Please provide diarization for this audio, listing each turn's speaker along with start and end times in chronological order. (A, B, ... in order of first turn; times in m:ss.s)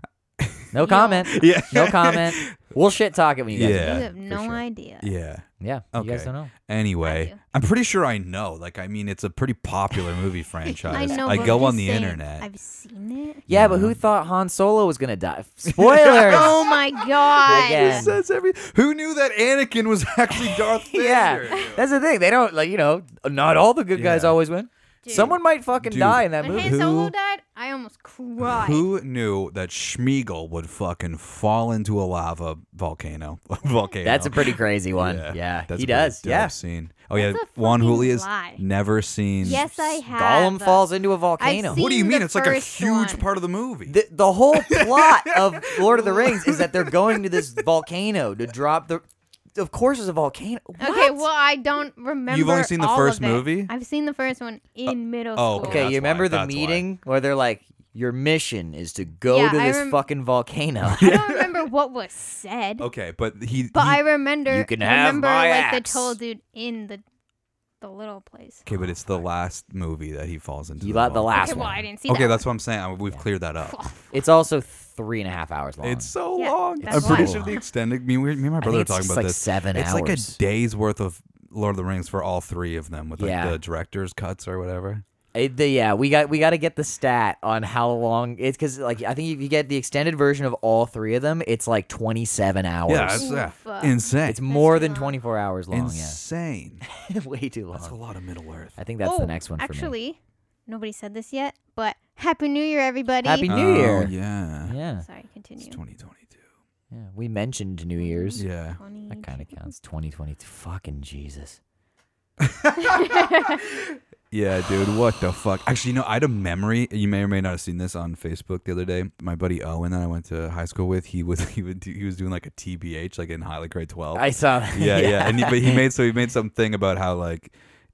0:00.4-0:00.7 A
0:00.7-0:04.4 B
0:00.8-0:01.3 C
0:01.3-0:02.7 A
0:03.5-0:12.5 A
0:03.7-0:05.1 C
0:05.6-0:06.5 B
0:07.0-0:07.4 C
0:10.7-0:13.4 C
0:10.9-0:11.6 B
0:13.5-0:16.6 B
0:13.5-0:14.0 A
0:15.6-0:21.8 A
0:16.2-0:18.1 C
0:17.4-0:18.2 B
0:20.3-0:27.1 B
0:24.0-0:24.4 A
0:25.0-0:25.4 C
0:25.8-0:27.1 A
0:26.4-0:28.8 C
0:28.4-0:40.0 A
0:34.0-0:36.6 B
0:37.2-0:38.6 C
0:39.4-0:40.9 C
0:40.1-0:41.8 B
0:41.4-0:43.2 C
0:41.7-0:44.0 A
0:43.9-0:49.0 B
0:44.6-0:47.7 A
0:49.6-0:51.3 B
0:50.8-0:55.9 C
0:52.3-0:53.7 A
0:55.4-0:56.9 A
0:55.6-1:01.1 B
0:59.3-1:00.0 C
1:00.9-1:01.6 A
1:00.9-1:02.9 C
1:02.8-1:04.0 A
1:03.7-1:07.0 C
1:04.5-1:06.2 B
1:07.8-1:08.7 C
1:08.7-1:13.8 A
1:10.8-1:11.9 B
1:11.4-1:12.4 C
1:13.6-1:14.1 C
1:14.1-1:16.1 B
1:15.8-1:25.0 A
1:16.4-1:17.6 C
1:16.8-1:17.5 B
1:18.6-1:20.4 B
1:23.2-1:23.6 B
1:25.3-1:33.3 B
1:32.9-1:34.4 A
1:33.2-1:35.2 C
1:34.2-1:36.2 B
1:35.7-1:36.8 A
1:36.8-1:38.0 B
1:37.7-1:38.8 A
1:38.8-1:39.9 B
1:39.0-1:43.6 C
1:43.2-1:44.1 B
1:43.5-1:44.8 A
1:44.7-1:45.1 B
1:45.0-1:45.8 C
1:45.6-1:46.4 A
1:46.9-1:48.4 B
1:48.0-1:49.7 C
1:48.4-1:48.8 A
1:49.1-1:51.6 B
1:52.4-2:07.5 A
1:52.9-1:53.6 C
2:04.2-2:05.8 B